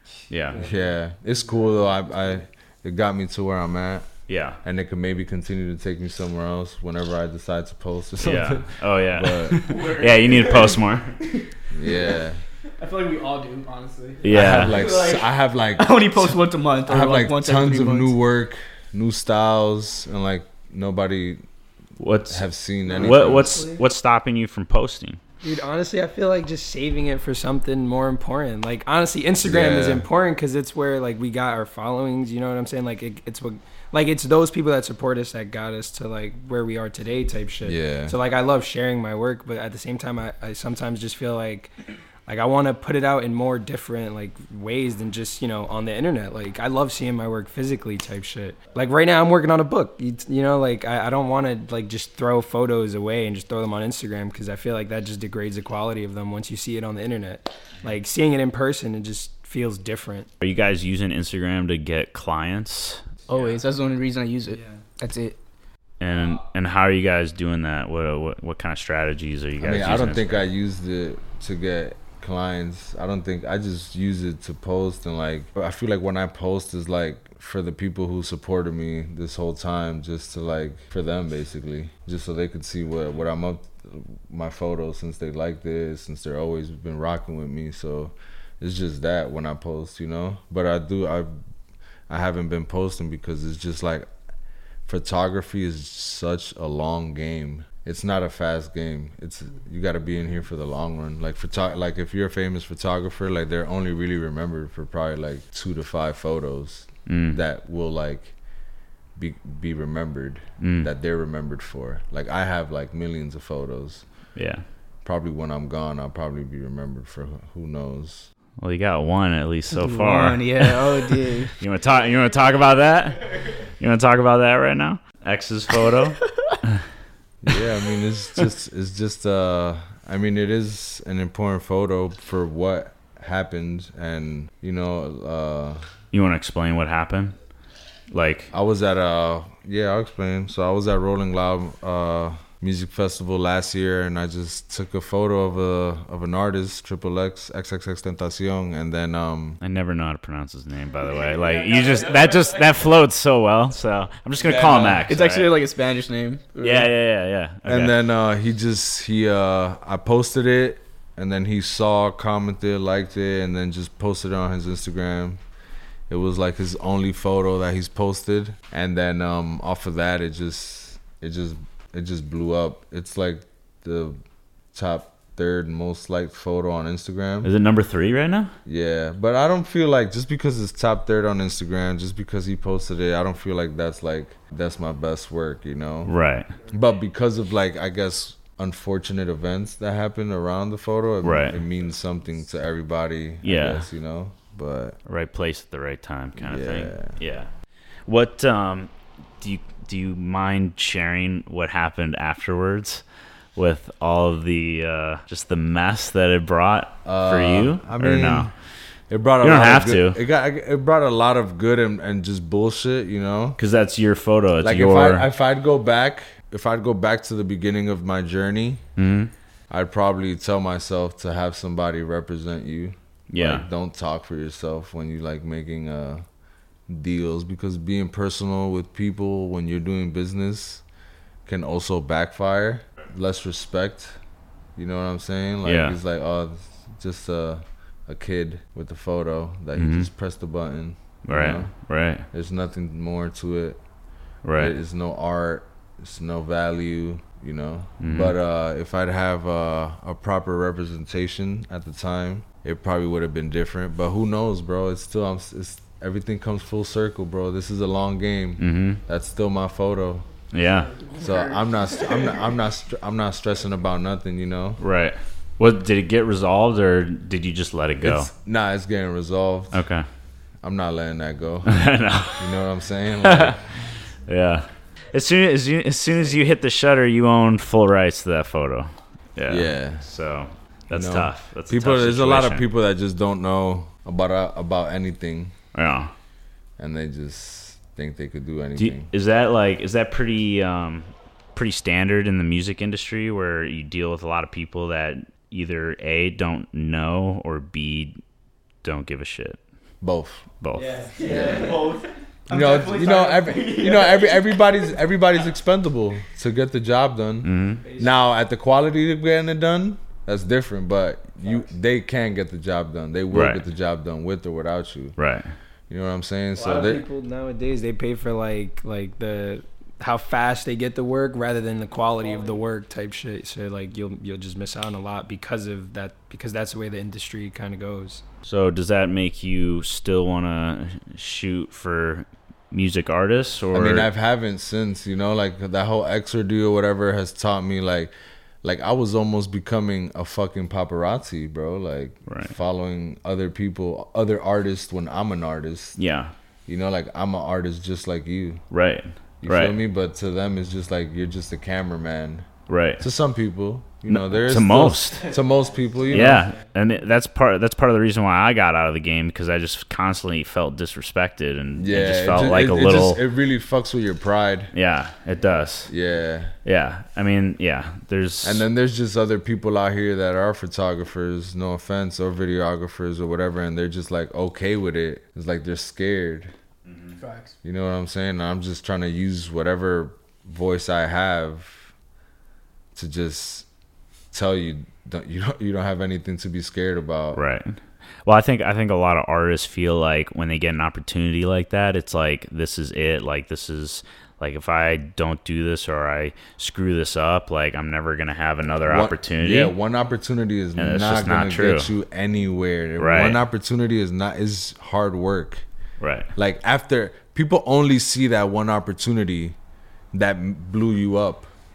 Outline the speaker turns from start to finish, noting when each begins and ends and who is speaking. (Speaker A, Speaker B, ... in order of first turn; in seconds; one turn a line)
Speaker A: 0.3-0.7
Speaker B: 0.5-4.1
Speaker A: 4.3-4.6
Speaker B: 4.6-9.9
Speaker A: 8.2-11.2
Speaker C: 9.5-10.4
Speaker B: 11.7-12.4
Speaker C: 12.8-18.1
Speaker A: 14.2-14.9
Speaker B: 14.3-21.4
Speaker A: 22.0-25.2
Speaker B: 22.3-23.6
Speaker D: 22.9-23.8
Speaker D: 25.4-41.7
Speaker B: 29.4-30.1
Speaker B: 37.6-38.1
Speaker D: 42.3-60.3
Speaker A: 60.4-63.0
Speaker C: 63.3-65.4
Speaker A: 66.0-70.4
Speaker B: 69.6-91.3
Speaker B: 92.1-94.1
Speaker B: 94.9-108.3
Speaker A: 107.1-107.4
Speaker B: 109.2-114.0
Speaker A: 110.6-110.9
Speaker A: 114.4-114.6
Speaker B: 115.0-118.3
Speaker A: 118.6-126.8
Speaker C: 119.7-121.5
Speaker B: 127.4-135.8
Speaker A: 136.1-137.3
Speaker A: 138.1-138.5
Speaker B: 138.5-149.6
Speaker A: 149.6-155.5
Speaker B: 154.4-155.0
Speaker C: 155.1-156.9
Speaker A: 156.6-157.9
Speaker B: 157.7-165.4
Speaker B: 166.1-174.2
Speaker B: 174.7-177.5
Speaker A: 177.4-178.5
Speaker B: 178.7-186.1
Speaker A: 186.0-186.5
Speaker B: 186.7-195.0
Speaker A: 191.2-191.6
Speaker A: 193.4-193.8
Speaker A: 195.1-197.5
Speaker B: 196.4-197.2
Speaker A: 198.1-203.0
Speaker A: 203.6-208.5
Speaker B: 207.0-208.5
Speaker B: 209.1-213.6
Speaker A: 209.4-210.2
Speaker A: 213.6-215.2
Speaker B: 214.6-218.8
Speaker A: 219.0-219.3
Speaker B: 219.7-226.2
Speaker A: 223.3-223.7
Speaker B: 226.9-230.8
Speaker B: 231.4-234.2
Speaker B: 234.8-241.7
Speaker A: 235.6-236.0
Speaker A: 239.8-240.1
Speaker A: 241.2-242.2
Speaker B: 242.3-243.8
Speaker A: 244.4-244.7
Speaker B: 244.6-260.2
Speaker A: 248.0-248.3
Speaker A: 258.6-259.0
Speaker A: 260.5-261.0
Speaker C: 261.1-261.6
Speaker B: 261.1-264.8
Speaker A: 264.8-268.3
Speaker B: 268.0-269.8
Speaker A: 269.7-270.0
Speaker B: 270.6-271.8
Speaker A: 271.6-272.6
Speaker B: 272.4-273.6
Speaker A: 273.2-273.6
Speaker A: 274.3-282.6
Speaker B: 279.5-280.1
Speaker B: 280.9-285.5
Speaker A: 285.7-286.1
Speaker B: 286.8-289.1
Speaker A: 288.8-298.2
Speaker A: 298.8-299.6
Speaker B: 300.0-300.4
Speaker A: 300.6-301.5
Speaker D: 300.7-301.9
Speaker B: 301.2-301.8
Speaker C: 301.3-304.4
Speaker B: 302.5-315.1
Speaker A: 307.4-307.8
Speaker D: 307.8-308.1
Speaker A: 313.3-313.6
Speaker A: 315.2-315.5
Speaker B: 315.9-317.1
Speaker D: 316.5-328.2
Speaker A: 328.4-334.1
Speaker B: 333.7-346.0
Speaker A: 342.3-342.5
Speaker A: 346.0-346.3
Speaker B: 346.7-348.6
Speaker A: 348.7-349.8
Speaker B: 349.4-352.5
Speaker A: 352.7-353.0
Speaker B: 353.0-356.5
Speaker A: 354.1-355.3
Speaker A: 356.1-363.2
Speaker D: 356.2-356.4
Speaker B: 361.8-364.7
Speaker A: 364.7-365.9
Speaker B: 365.9-366.5
Speaker A: 366.6-368.6
Speaker B: 368.4-376.5
Speaker A: 376.9-377.2
Speaker C: 377.2-377.5
Speaker B: 377.6-381.9
Speaker B: 382.9-383.6
Speaker B: 384.3-387.4
Speaker A: 387.4-399.7
Speaker B: 398.9-405.6
Speaker A: 400.8-401.9
Speaker A: 403.0-403.4
Speaker A: 406.0-406.3
Speaker B: 406.4-409.6
Speaker B: 410.1-411.5